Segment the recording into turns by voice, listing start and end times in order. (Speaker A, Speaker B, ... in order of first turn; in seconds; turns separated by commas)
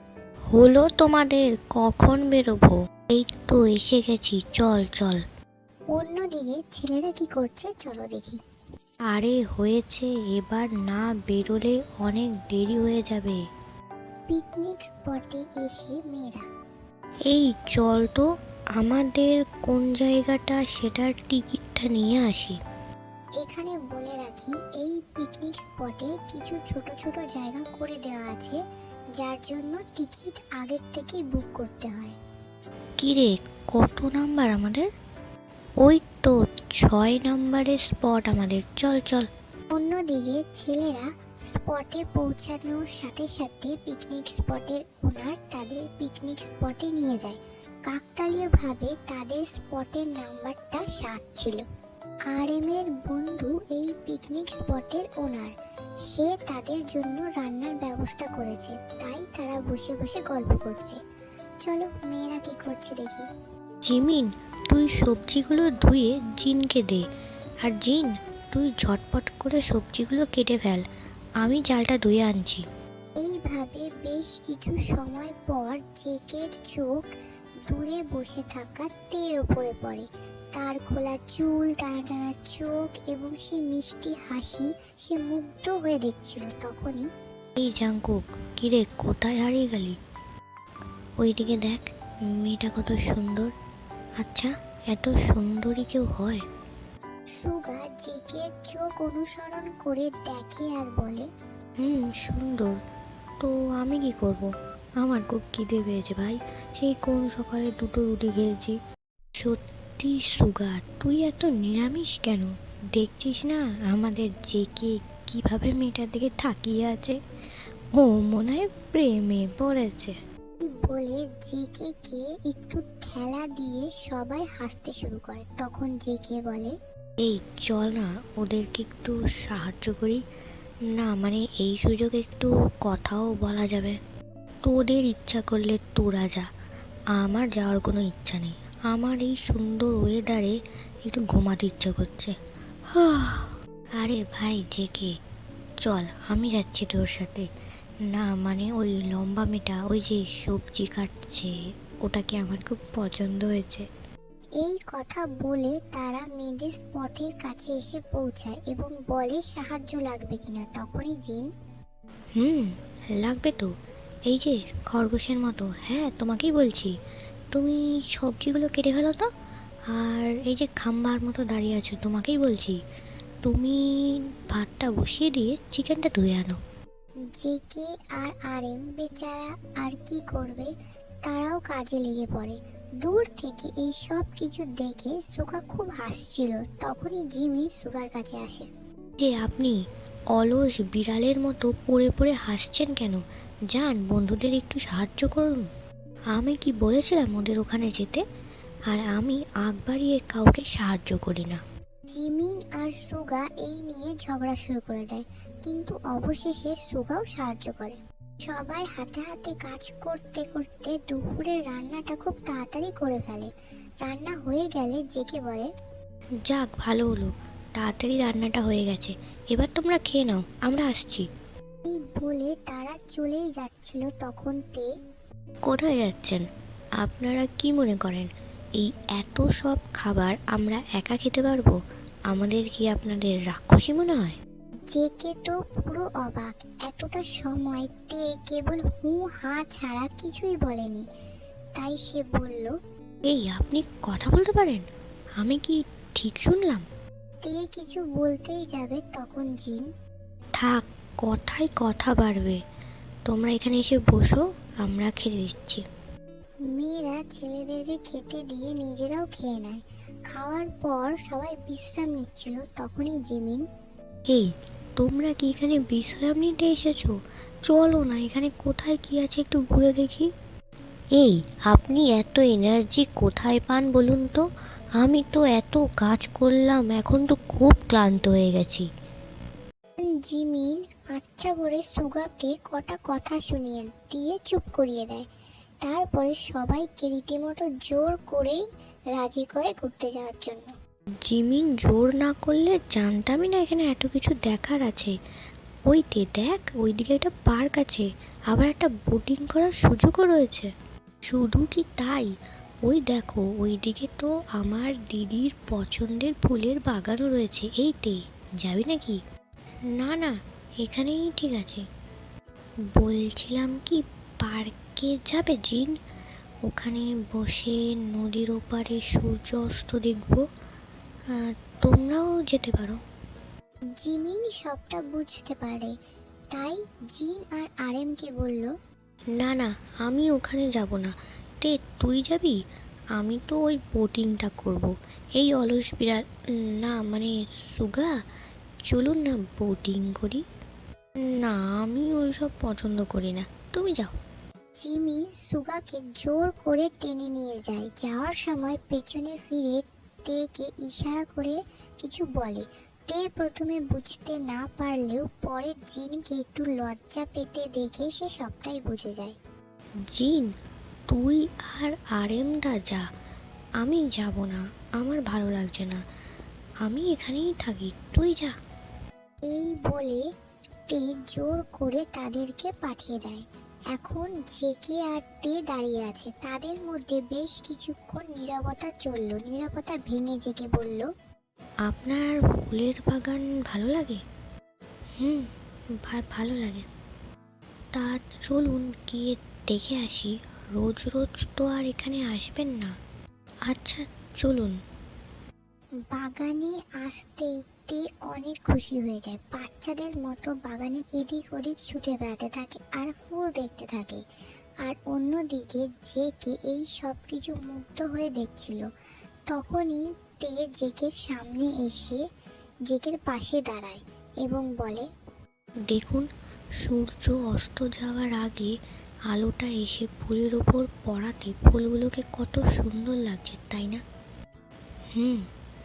Speaker A: 0.5-5.2, Speaker B: 5.9-8.4, Speaker A: 9.1-13.4, Speaker B: 14.3-16.4, Speaker A: 17.3-18.2, Speaker A: 18.8-22.6, Speaker B: 23.4-28.6, Speaker B: 29.2-32.2, Speaker A: 33.0-34.9, Speaker A: 35.8-39.3, Speaker B: 39.7-51.6, Speaker B: 52.3-55.5, Speaker B: 56.1-61.0, Speaker B: 61.6-63.3, Speaker A: 63.9-67.0, Speaker A: 67.6-70.8, Speaker A: 71.4-72.6, Speaker B: 73.2-77.0, Speaker B: 77.7-87.1, Speaker A: 87.6-90.0, Speaker A: 91.2-93.5, Speaker A: 94.2-96.4, Speaker B: 97.4-101.3, Speaker A: 101.8-102.8, Speaker A: 103.4-104.5, Speaker A: 105.0-108.8, Speaker A: 109.4-117.2, Speaker A: 118.0-120.2, Speaker B: 120.6-126.8, Speaker A: 127.2-130.2, Speaker A: 131.0-134.0, Speaker A: 134.7-136.5, Speaker A: 137.2-142.3, Speaker A: 142.9-145.1, Speaker A: 145.8-147.5, Speaker A: 148.1-151.5, Speaker A: 152.1-153.9, Speaker B: 154.6-161.5, Speaker A: 162.4-163.7, Speaker A: 164.3-166.9, Speaker A: 167.5-169.3, Speaker A: 169.9-172.8, Speaker A: 173.4-176.6, Speaker B: 177.3-180.7, Speaker B: 181.2-188.7, Speaker A: 189.2-189.8, Speaker A: 190.3-195.7, Speaker A: 196.4-198.2, Speaker A: 198.9-201.6, Speaker B: 202.1-213.5, Speaker B: 214.0-215.7, Speaker A: 216.5-221.3, Speaker B: 221.9-224.9, Speaker A: 225.7-226.4, Speaker A: 227.0-231.8, Speaker A: 232.3-234.4, Speaker B: 234.9-241.1, Speaker B: 241.8-242.7, Speaker A: 243.2-244.9, Speaker A: 245.4-246.9, Speaker B: 247.4-249.9, Speaker A: 250.6-252.6, Speaker A: 253.3-255.8, Speaker B: 256.7-263.6, Speaker A: 264.3-267.2, Speaker A: 267.7-270.3, Speaker A: 271.2-274.4, Speaker A: 275.0-278.9, Speaker B: 280.0-285.3, Speaker B: 285.8-288.6, Speaker B: 289.1-290.7, Speaker A: 291.2-295.2, Speaker A: 295.9-300.7, Speaker A: 301.3-302.3, Speaker A: 302.9-309.2, Speaker A: 310.0-311.8, Speaker A: 312.9-315.9, Speaker A: 316.7-320.4, Speaker A: 321.3-323.0, Speaker B: 324.0-325.9, Speaker B: 326.5-328.7, Speaker A: 329.4-332.6, Speaker A: 333.2-338.1, Speaker A: 338.9-340.4, Speaker A: 341.2-344.1, Speaker B: 344.8-359.4, Speaker A: 360.1-360.5, Speaker A: 361.1-363.0, Speaker A: 363.8-366.0, Speaker A: 366.9-368.5, Speaker B: 369.4-370.2, Speaker B: 370.9-381.1, Speaker A: 381.9-384.2, Speaker A: 385.2-385.5, Speaker A: 386.1-386.9, Speaker A: 387.9-393.0, Speaker A: 393.7-394.8, Speaker B: 396.1-404.2, Speaker B: 404.8-408.9, Speaker B: 409.5-412.2, Speaker B: 412.9-415.1, Speaker A: 415.9-416.3, Speaker A: 416.8-418.7, Speaker A: 419.3-424.0, Speaker A: 425.1-425.5